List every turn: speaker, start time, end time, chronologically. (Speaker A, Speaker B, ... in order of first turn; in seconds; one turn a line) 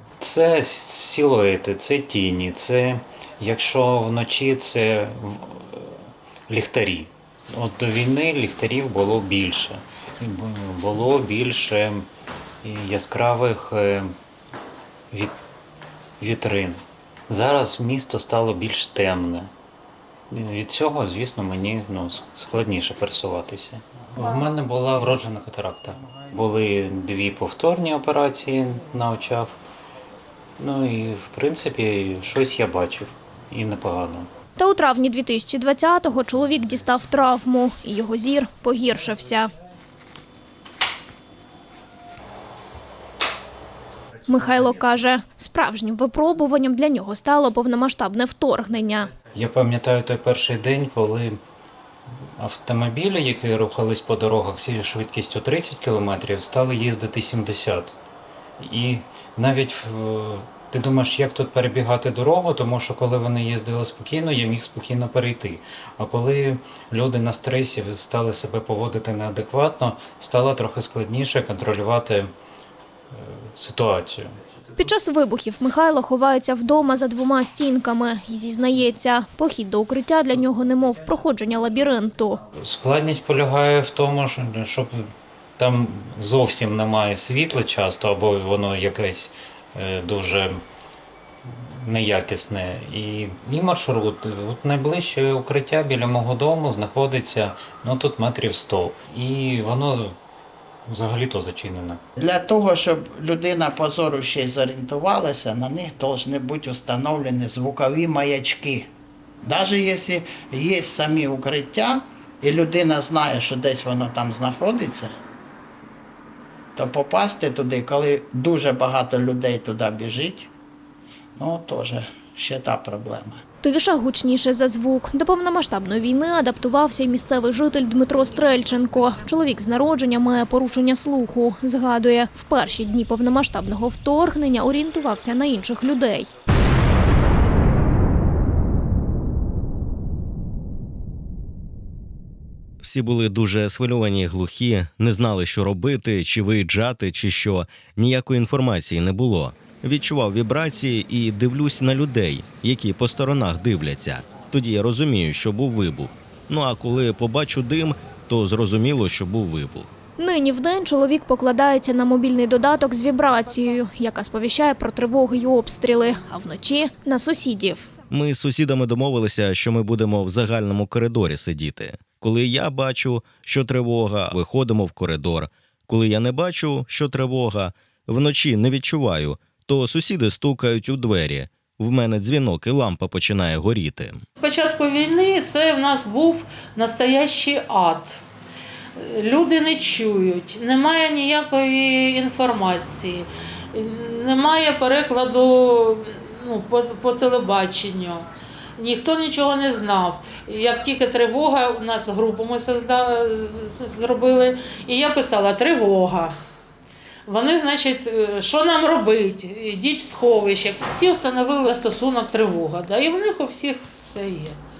Speaker A: 0.2-12.1
Speaker A: 12.6-14.2
Speaker A: 16.2-19.5
Speaker A: 20.3-29.6
Speaker A: 30.6-34.3
Speaker B: 34.6-39.5
Speaker B: 44.2-49.1
Speaker A: 49.3-51.4
Speaker A: 52.4-57.9
Speaker A: 58.6-72.3
Speaker A: 73.1-74.3
Speaker B: 74.8-82.4
Speaker A: 82.5-90.6
Speaker A: 91.4-100.2
Speaker A: 100.8-102.0
Speaker C: 102.2-108.9
Speaker C: 109.4-115.1
Speaker C: 116.8-120.5
Speaker C: 121.3-123.4
Speaker B: 123.6-136.3
Speaker D: 142.8-159.9
Speaker B: 160.2-167.9
Speaker D: 168.1-184.2
Speaker E: 184.4-188.2
Speaker E: 188.9-206.3
Speaker E: 207.2-214.6